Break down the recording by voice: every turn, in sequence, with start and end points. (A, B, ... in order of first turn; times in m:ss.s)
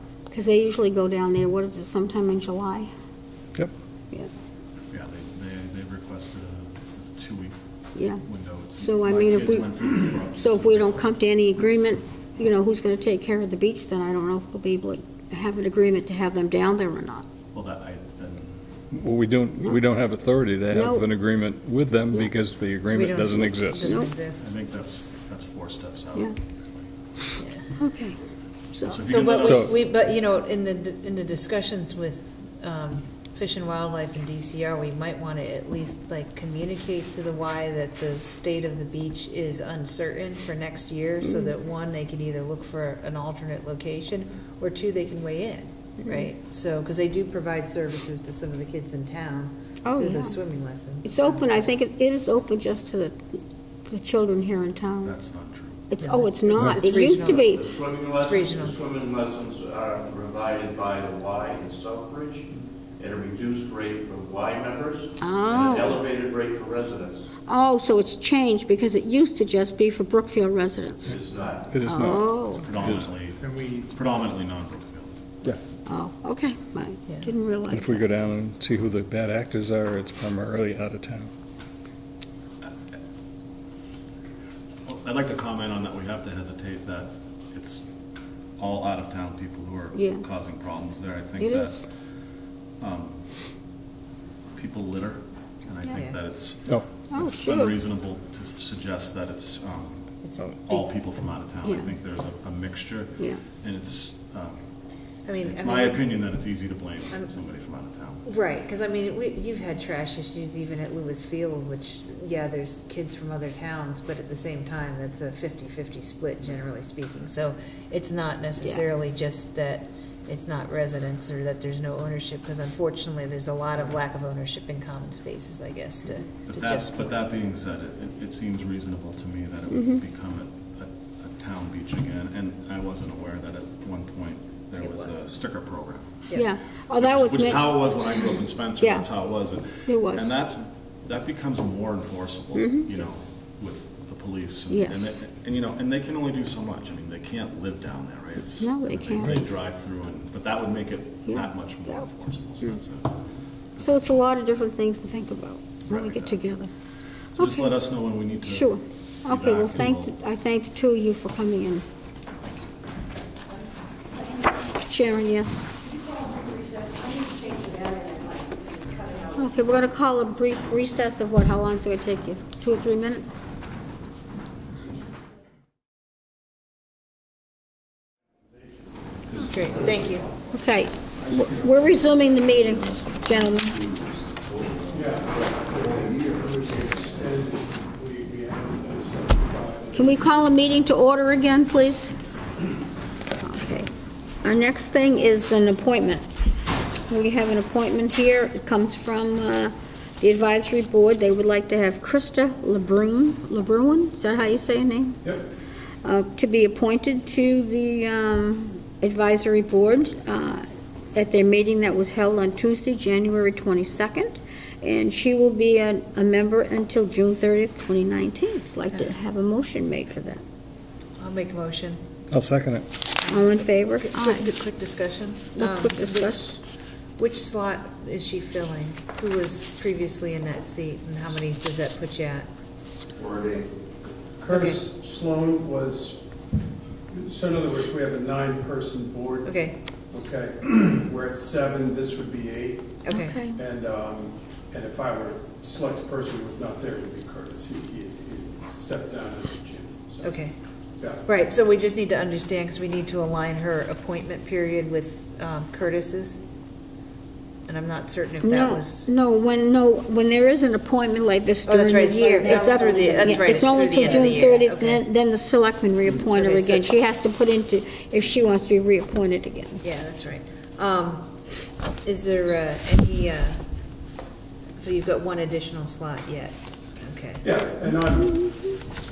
0:00.3-0:02.9 A
0:04.9-0:07.6 B
0:07.9-0:08.2 A
0:08.2-0:11.1 B
0:08.8-0:17.3 A
0:17.5-0:18.6 B
0:18.9-0:24.0 C
0:20.7-0:21.0 A
0:22.9-0:24.5 D
0:23.8-0:24.1 A
0:24.4-0:26.9 B
0:27.4-0:27.7 D
0:27.8-0:28.2 A
0:28.7-0:29.0 A
0:28.8-0:29.7 B
0:29.0-0:51.7 D
0:29.4-0:29.7 C
0:49.8-0:50.4 A
0:51.0-0:53.2 A
0:53.8-0:55.2 A
0:55.0-0:55.9 B
0:55.9-0:57.6 A
0:56.0-0:58.8 D
0:57.4-1:07.2 E
1:05.2-1:06.0 A
1:07.5-1:11.2 A
1:11.1-1:11.7 E
1:11.7-1:13.1 C
1:11.8-1:12.7 A
1:12.6-1:15.1 B
1:13.4-1:13.9 F
1:15.8-1:18.1 A
1:17.7-1:21.3 C
1:24.8-1:27.8 B
1:28.6-1:31.8 B
1:29.9-1:30.2 A
1:31.4-1:31.7 A
1:32.8-1:33.2 B
1:34.5-1:40.1 B
1:35.8-1:36.2 D
1:37.1-1:37.7 A
1:40.2-1:40.9 D
1:40.7-1:44.6 B
1:45.2-1:46.1 D
1:45.4-1:48.2 B
1:48.2-2:07.2 D
2:06.5-2:16.2 B
2:09.7-2:10.0 A
2:14.8-2:15.2 D
2:16.3-2:19.1 A
2:17.0-2:33.1 B
2:19.8-2:20.4 A
2:22.6-2:23.0 A
2:24.7-2:25.2 A
2:28.6-2:29.4 A
2:31.3-2:32.0 A
2:33.8-2:34.1 B
2:33.8-2:36.7 A
2:35.9-2:36.4 B
2:37.4-2:38.7 B
2:37.4-2:37.7 A
2:38.4-2:41.8 A
2:39.2-2:40.1 B
2:44.7-2:45.7 A
2:49.2-2:53.4 A
2:59.4-3:00.2 D
2:59.8-3:00.2 E
3:00.5-3:03.9 A
3:04.7-3:05.4 E
3:04.9-3:10.2 F
3:06.1-3:06.4 E
3:09.9-3:12.1 A
3:13.4-3:13.9 A
3:14.4-3:16.3 A
3:17.1-3:25.2 A
3:26.0-3:40.4 A
3:41.2-3:42.0 D
3:42.3-3:42.8 C
3:43.2-3:46.6 D
3:43.3-3:44.5 A
3:45.5-3:46.4 A
3:47.2-3:52.5 D
3:53.2-3:53.7 E
3:54.4-3:56.2 F
3:54.5-3:54.8 D
3:57.1-3:59.6 F
3:59.4-3:59.8 D
4:00.1-4:10.3 F
4:03.0-4:03.4 D
4:03.1-4:03.6 A
4:10.2-4:10.6 D
4:11.2-4:16.4 D
4:17.7-4:19.1 D
4:18.4-4:29.8 A
4:21.6-4:25.0 D
4:26.3-4:26.8 D
4:29.8-4:31.3 D
4:32.0-4:33.6 D
4:34.8-4:37.4 D
4:37.4-4:38.7 F